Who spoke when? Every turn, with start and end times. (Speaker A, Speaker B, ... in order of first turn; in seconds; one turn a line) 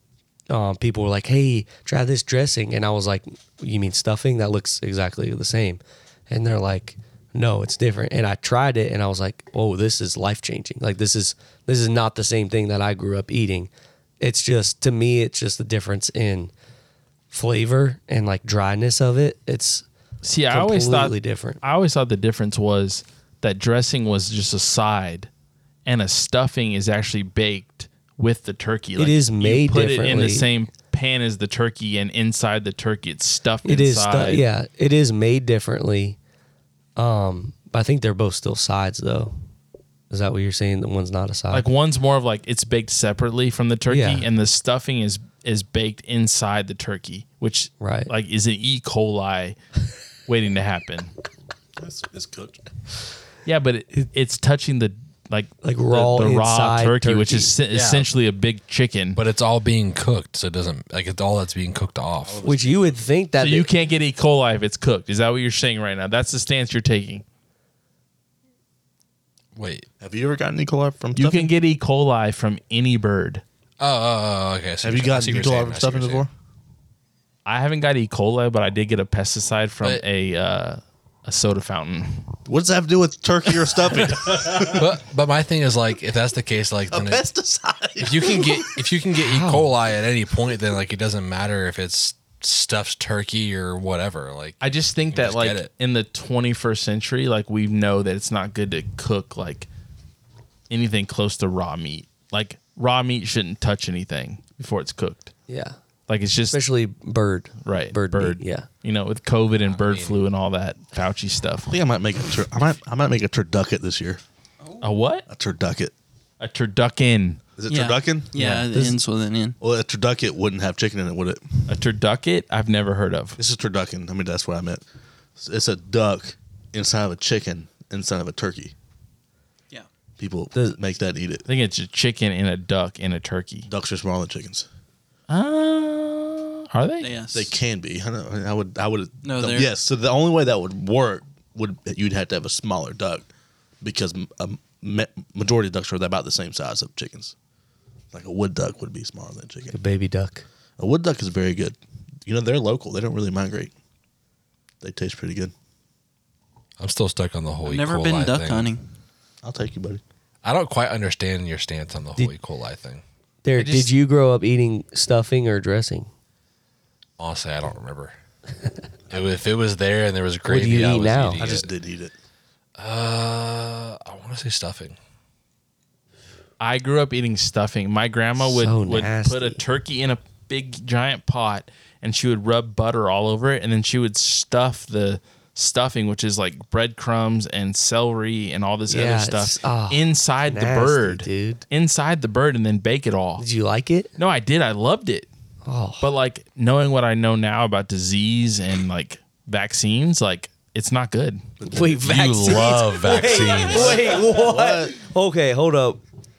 Speaker A: 0.5-16.5
Speaker A: 17.3-19.8
Speaker B: 20.2-25.3
Speaker A: 20.5-21.6
Speaker B: 25.9-34.4
Speaker A: 29.0-30.5
Speaker A: 33.6-36.2
Speaker A: 37.0-39.3
Speaker A: 40.1-41.7
Speaker B: 41.5-49.6
Speaker A: 43.9-44.3
Speaker A: 47.8-48.1
Speaker B: 50.3-51.1
Speaker C: 51.8-52.6
Speaker B: 53.5-59.2
Speaker A: 55.6-57.5
Speaker D: 57.7-58.1
Speaker D: 59.1-62.5
Speaker C: 62.3-62.8
Speaker A: 62.4-63.7
Speaker B: 63.4-67.2
Speaker D: 69.5-69.9
Speaker C: 70.0-71.5
Speaker B: 71.2-73.4
Speaker D: 73.8-76.2
Speaker C: 74.8-76.3
Speaker B: 77.5-82.3
Speaker C: 82.5-84.9
Speaker D: 84.1-87.3
Speaker C: 86.9-88.8
Speaker D: 88.0-95.7
Speaker A: 89.2-89.7
Speaker B: 94.6-99.7
Speaker B: 100.7-105.3
Speaker A: 105.5-105.8
Speaker B: 106.1-106.6
Speaker A: 106.5-108.7
Speaker B: 107.6-111.7
Speaker D: 109.6-110.2
Speaker C: 111.7-114.2
Speaker E: 114.6-114.9
Speaker B: 114.8-115.2
Speaker C: 115.3-115.9
Speaker B: 116.4-117.4
Speaker C: 117.6-118.3
Speaker E: 117.7-119.6
Speaker B: 118.4-118.7
Speaker C: 119.6-121.6
Speaker B: 121.7-123.4
Speaker C: 123.4-124.8
Speaker C: 125.4-128.7
Speaker C: 130.2-131.4
Speaker B: 131.5-133.7
Speaker C: 133.7-134.7
Speaker B: 135.3-137.1
Speaker E: 137.0-137.5
Speaker C: 137.3-143.3
Speaker E: 139.2-139.7
Speaker C: 143.8-147.3
Speaker C: 148.1-149.8
Speaker A: 149.7-150.4
Speaker C: 150.8-153.7
Speaker C: 154.8-155.5
Speaker D: 156.8-158.7
Speaker E: 157.6-158.9
Speaker C: 159.4-160.0
Speaker D: 160.4-163.0
Speaker A: 163.4-166.1
Speaker B: 163.6-163.9
Speaker D: 167.2-168.2
Speaker D: 169.1-171.7
Speaker A: 170.4-171.6
Speaker C: 171.4-172.1
Speaker D: 172.8-175.0
Speaker B: 176.6-193.4
Speaker A: 178.4-179.6
Speaker A: 188.9-191.6
Speaker A: 193.4-194.1
Speaker B: 194.2-195.3
Speaker A: 195.6-196.1
Speaker B: 196.0-201.4
Speaker C: 201.6-201.9
Speaker A: 201.7-206.0
Speaker D: 202.0-204.0
Speaker C: 203.7-205.0